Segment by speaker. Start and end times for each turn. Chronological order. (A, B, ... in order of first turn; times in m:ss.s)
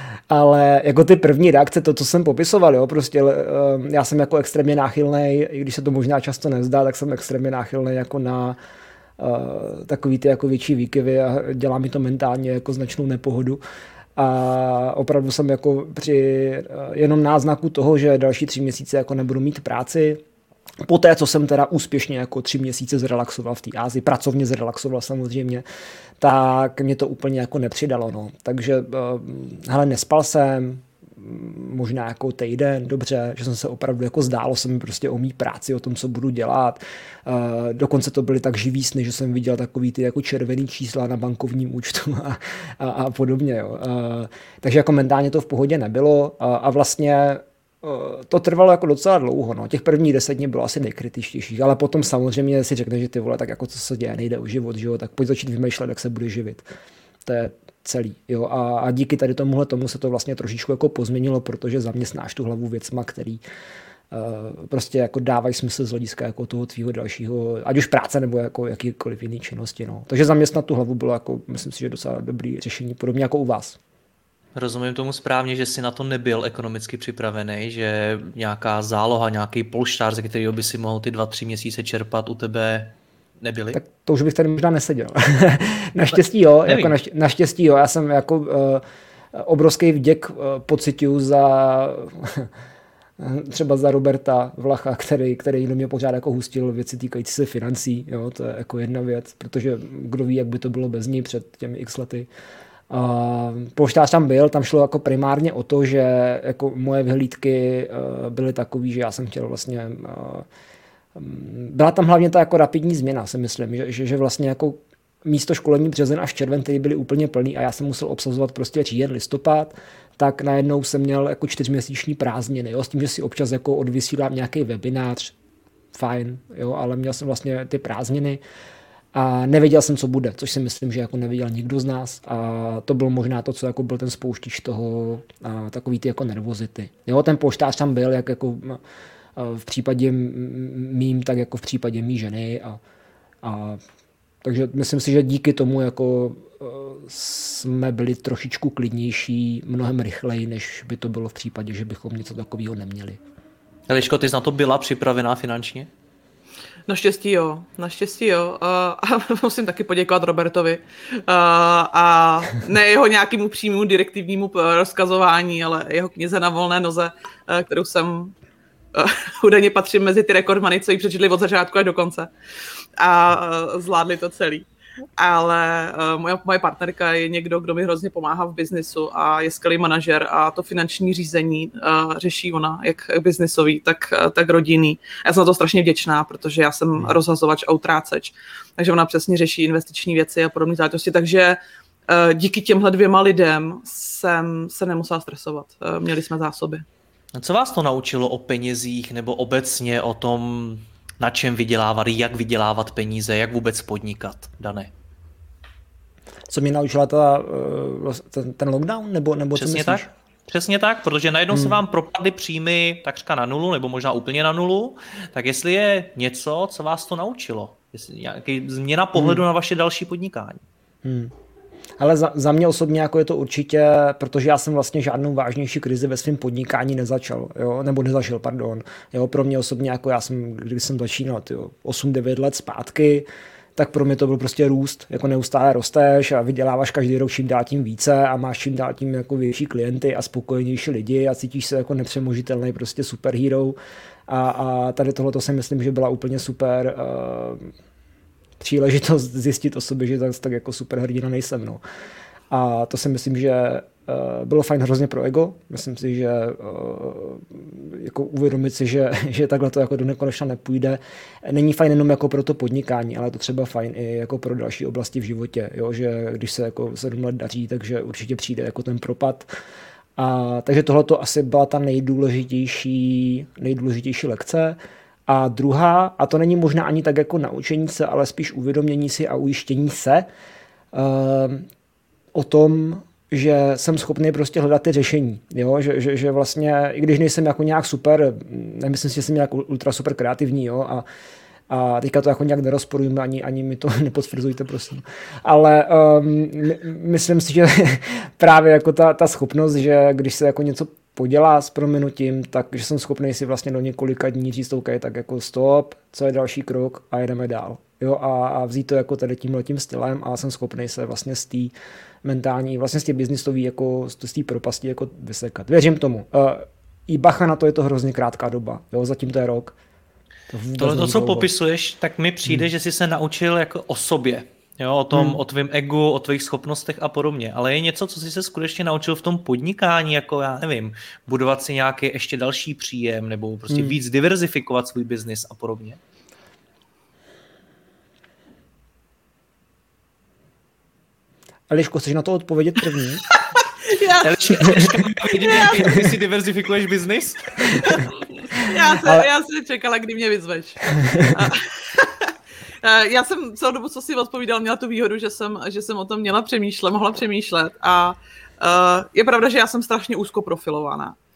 0:00.3-0:08.6 A
0:09.2-0:13.6 A
0:14.2-0:20.2 A
0:20.8-0:25.6 A
0:26.2-0:56.6 A
0:57.2-1:03.4 A
1:04.1-1:13.8 A
1:14.5-1:23.8 B
1:23.7-1:28.8 A
1:26.6-1:26.9 B
1:29.3-1:32.5 A
1:33.2-1:42.3 A
1:42.9-1:50.4 A
1:51.1-2:05.3 A
2:05.9-2:08.4 A
2:09.1-2:18.8 A
2:19.4-2:22.8 A
2:23.4-2:23.8 A
2:24.4-2:33.2 A
2:33.9-2:35.9 B
2:36.9-2:48.3 C
2:48.9-2:52.3 C
2:53.0-2:54.7 C
2:55.2-3:16.8 C
3:17.3-3:24.9 B
3:26.5-3:30.1 A
3:29.5-3:40.6 B
3:31.5-3:31.8 A
3:39.1-3:39.4 A
3:41.0-3:41.3 A
3:42.0-4:03.8 A
4:04.3-4:07.7 A
4:08.6-4:11.8 A
4:12.5-4:29.5 A
4:30.2-4:34.8 A
4:35.3-4:40.3 A
4:40.9-4:41.7 A
4:42.3-4:51.0 A
4:51.7-5:19.8 A
5:20.5-5:21.5 A
5:20.8-5:36.0 B
5:25.1-5:25.4 A
5:33.7-5:34.0 A
5:41.7-5:43.2 A
5:43.3-5:45.8 C
5:44.2-5:48.0 B
5:44.6-5:44.9 A
5:47.8-6:01.2 C
5:51.0-5:51.5 A